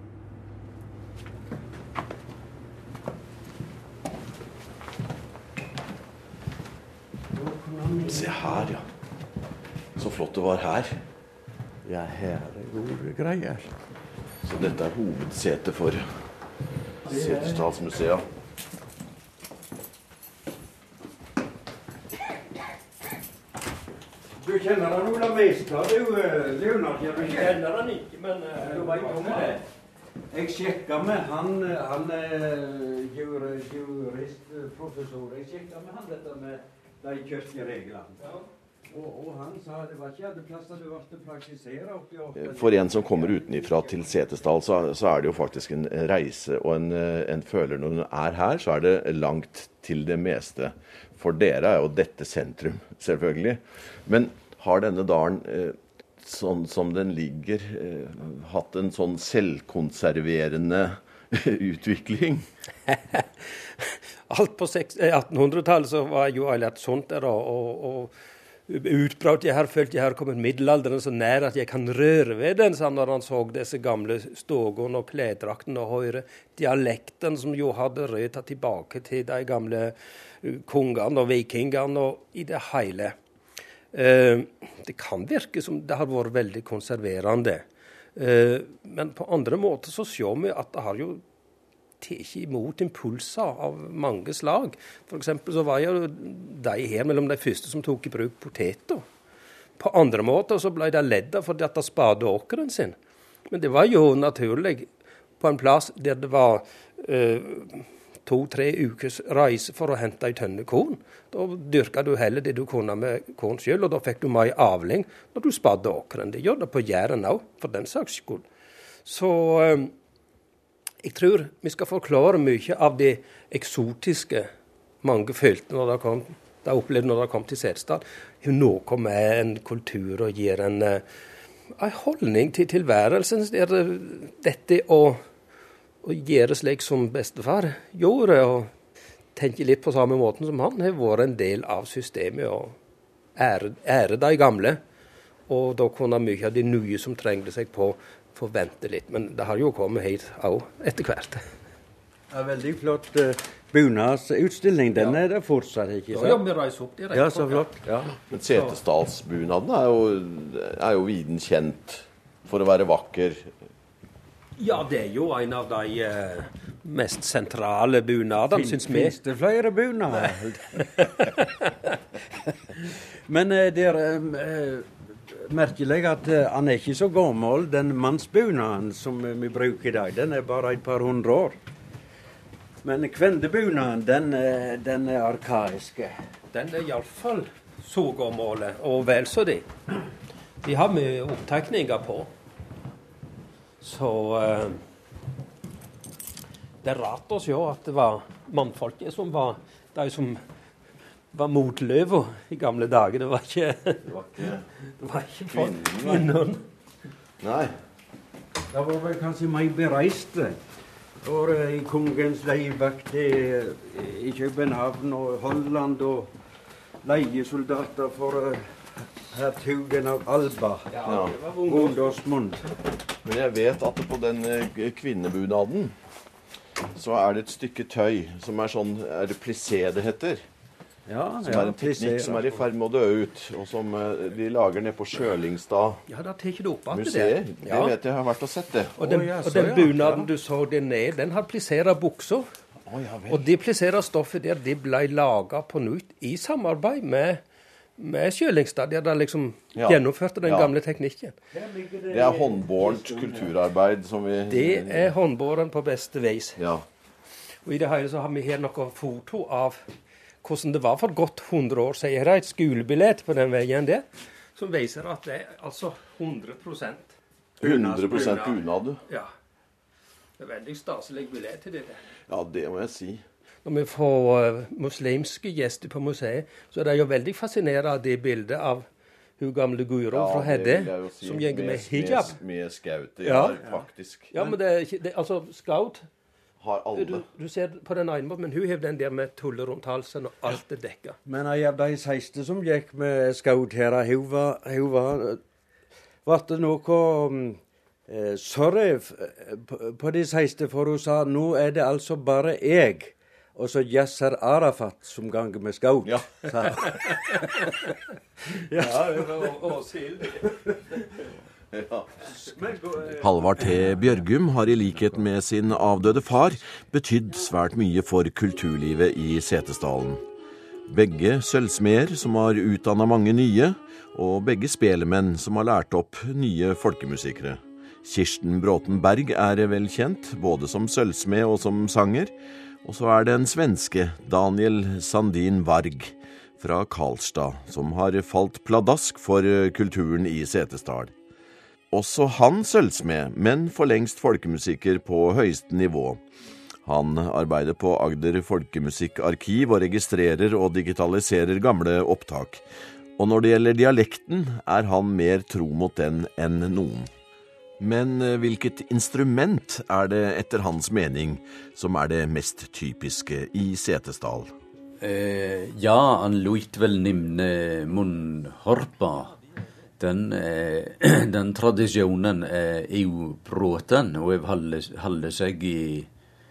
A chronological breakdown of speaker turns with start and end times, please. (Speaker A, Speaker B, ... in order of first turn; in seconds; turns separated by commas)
Speaker A: 7.3-8.8, Speaker B: 8.1-8.9, Speaker B: 10.0-11.0, Speaker A: 11.8-13.7, Speaker B: 14.4-16.2, Speaker B: 17.1-18.2, Speaker A: 17.1-17.7, Speaker A: 24.4-27.6, Speaker C: 27.2-29.6, Speaker A: 28.6-29.6, Speaker A: 30.3-38.3, Speaker A: 38.9-44.0, Speaker B: 42.4-62.5, Speaker C: 62.9-63.3, Speaker C: 63.8-68.1, Speaker C: 68.7-83.2, Speaker C: 83.9-87.6, Speaker C: 88.2-91.2, Speaker C: 92.0-99.0, Speaker C: 99.8-103.0, Speaker C: 103.5-104.9, Speaker C: 105.4-118.5, Speaker C: 119.0-119.9, Speaker C: 121.0-124.5, Speaker C: 125.0-131.0, Speaker C: 131.7-135.2, Speaker C: 136.0-138.7, Speaker C: 139.3-142.8, Speaker C: 143.4-144.8, Speaker C: 145.5-151.5, Speaker A: 152.3-156.4, Speaker C: 154.9-155.2, Speaker C: 156.1-157.7, Speaker A: 157.1-158.2, Speaker B: 158.3-163.5, Speaker C: 164.6-169.2, Speaker A: 168.5-171.2, Speaker C: 170.8-171.5, Speaker A: 172.5-181.6, Speaker A: 182.8-186.2, Speaker C: 186.5-189.7, Speaker C: 190.6-192.3, Speaker C: 193.8-194.8, Speaker C: 196.8-200.4, Speaker C: 201.3-204.1, Speaker B: 204.0-204.7, Speaker C: 205.0-206.6, Speaker B: 205.5-206.3, Speaker B: 207.4-207.8, Speaker A: 208.7-210.6, Speaker A: 211.2-216.3, Speaker A: 217.0-222.7, Speaker C: 220.9-222.2, Speaker B: 221.1-221.3, Speaker B: 223.2-225.9, Speaker B: 226.9-230.4, Speaker A: 231.1-232.5, Speaker B: 231.4-236.0, Speaker C: 236.1-237.9, Speaker B: 236.9-238.9, Speaker C: 239.0-242.5, Speaker A: 239.0-240.3, Speaker B: 242.9-243.4, Speaker C: 243.3-247.4, Speaker C: 248.0-251.4, Speaker B: 249.8-250.7, Speaker A: 251.5-253.5, Speaker B: 252.1-255.1, Speaker C: 254.5-256.6, Speaker B: 256.6-256.9, Speaker C: 257.6-259.9, Speaker C: 260.4-267.1, Speaker B: 267.6-269.0, Speaker A: 267.7-268.3, Speaker C: 267.7-269.3, Speaker C: 270.4-272.1, Speaker B: 272.3-273.2, Speaker C: 273.6-278.9, Speaker C: 279.4-282.4, Speaker B: 280.1-284.3, Speaker A: 283.2-283.7, Speaker C: 283.3-283.6, Speaker C: 284.3-286.1, Speaker B: 286.6-287.2, Speaker C: 286.9-291.2, Speaker A: 291.3-295.4, Speaker A: 296.2-307.7, Speaker A: 308.5-309.5, Speaker C: 308.7-311.1, Speaker B: 311.7-312.3, Speaker A: 312.4-314.0, Speaker B: 313.2-320.2, Speaker B: 320.9-341.1, Speaker B: 341.9-346.2, Speaker B: 346.9-352.6, Speaker B: 353.2-357.1, Speaker B: 357.8-364.5, Speaker D: 365.0-369.4, Speaker D: 370.0-376.1